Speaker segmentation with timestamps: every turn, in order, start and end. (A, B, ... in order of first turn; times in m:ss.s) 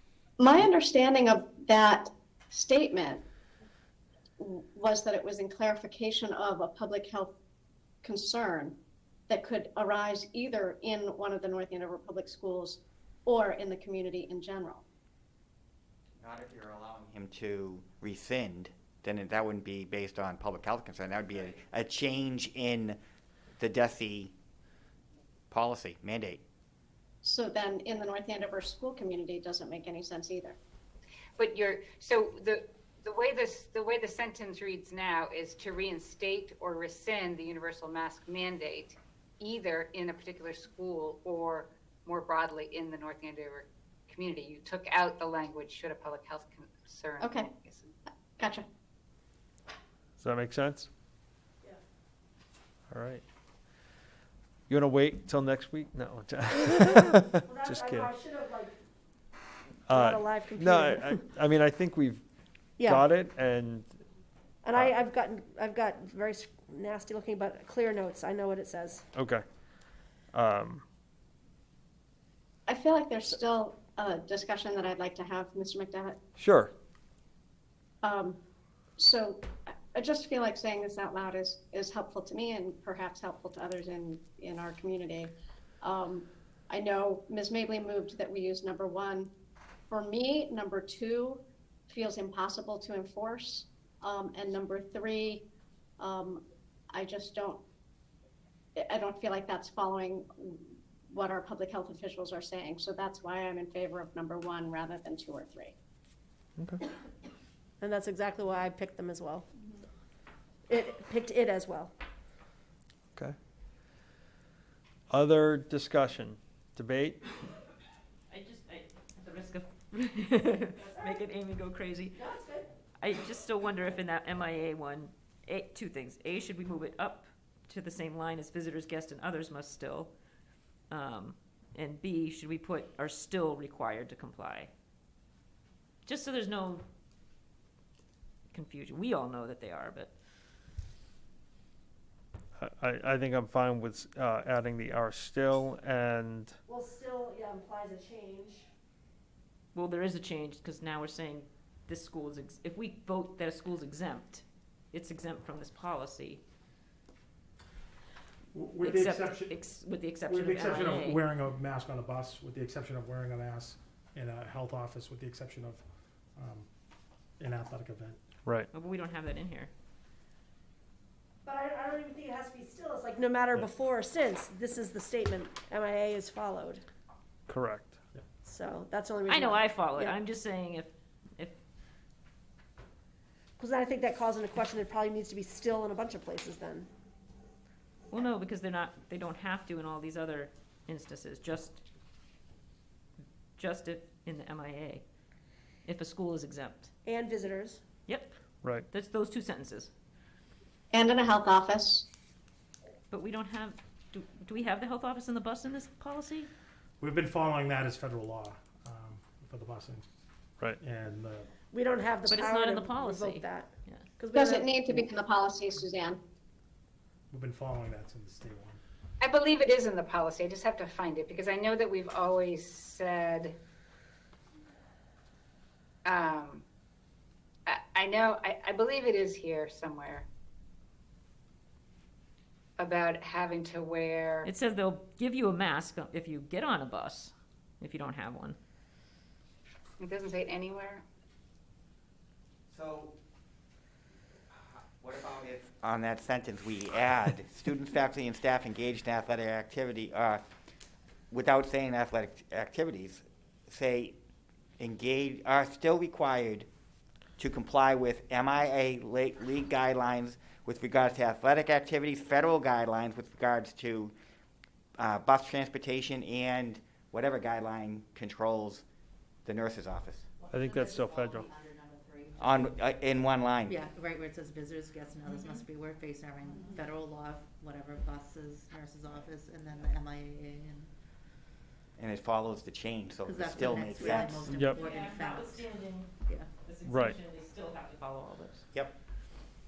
0:00.4-0:03.2 A
0:04.4-0:07.3 A
0:08.0-0:08.7 A
0:09.3-0:14.8 A
0:16.2-0:23.0 B
0:23.6-0:24.3 B
0:25.5-0:26.4 B
0:27.2-0:30.6 A
0:31.4-0:47.9 C
0:47.2-0:47.5 A
0:48.1-0:48.6 A
0:50.2-0:50.9 D
0:52.9-0:53.2 D
0:54.7-0:58.1 D
0:57.4-0:58.7 E
0:59.9-1:02.2 D
0:59.9-1:01.2 E
1:02.8-1:03.1 E
1:02.8-1:04.0 D
1:04.6-1:09.0 E
1:09.1-1:09.4 D
1:10.3-1:10.8 D
1:12.7-1:16.2 A
1:16.4-1:16.7 D
1:18.0-1:18.4 A
1:19.0-1:29.3 A
1:29.9-1:35.4 A
1:36.0-1:37.6 A
1:38.8-1:45.7 A
1:47.8-1:49.4 E
1:50.7-1:51.9 E
1:55.1-1:57.2 D
1:58.3-2:02.2 F
2:00.8-2:01.2 E
2:02.1-2:02.7 E
2:03.0-2:10.1 F
2:10.9-2:14.7 F
2:16.0-2:16.8 F
2:18.5-2:20.1 F
2:22.6-2:26.6 D
2:26.7-2:28.6 E
2:29.7-2:36.4 F
2:38.5-2:39.5 G
2:38.8-2:41.2 F
2:40.3-2:45.8 G
2:46.4-2:46.7 G
2:47.4-2:48.2 G
2:48.7-2:49.7 F
2:51.4-2:56.8 E
2:57.5-2:58.0 D
2:58.4-3:00.2 E
2:59.3-3:01.6 F
3:03.6-3:06.9 E
3:08.1-3:11.8 F
3:13.6-3:15.0 F
3:15.8-3:16.9 F
3:17.0-3:17.8 E
3:18.0-3:19.9 F
3:20.9-3:22.0 A
3:23.1-3:26.5 F
3:27.0-3:30.0 G
3:30.8-3:31.5 G
3:31.7-3:35.0 E
3:32.3-3:34.1 F
3:34.3-3:36.2 A
3:37.3-3:38.8 G
3:39.2-3:43.6 C
3:46.0-3:46.6 C
3:47.6-3:50.3 C
3:52.8-3:54.5 C
3:54.4-3:58.6 F
4:00.0-4:01.0 C
4:02.7-4:03.1 B
4:04.5-4:10.4 B
4:11.3-4:14.2 B
4:14.8-4:16.7 B
4:17.4-4:24.1 B
4:25.0-4:28.8 B
4:29.4-4:30.2 B
4:30.4-4:32.7 H
4:30.5-4:31.5 D
4:32.4-4:33.8 B
4:33.7-4:40.9 H
4:42.0-4:44.5 B
4:43.2-4:45.7 H
4:44.2-4:48.6 F
4:44.5-4:44.8 D
4:46.8-4:47.2 D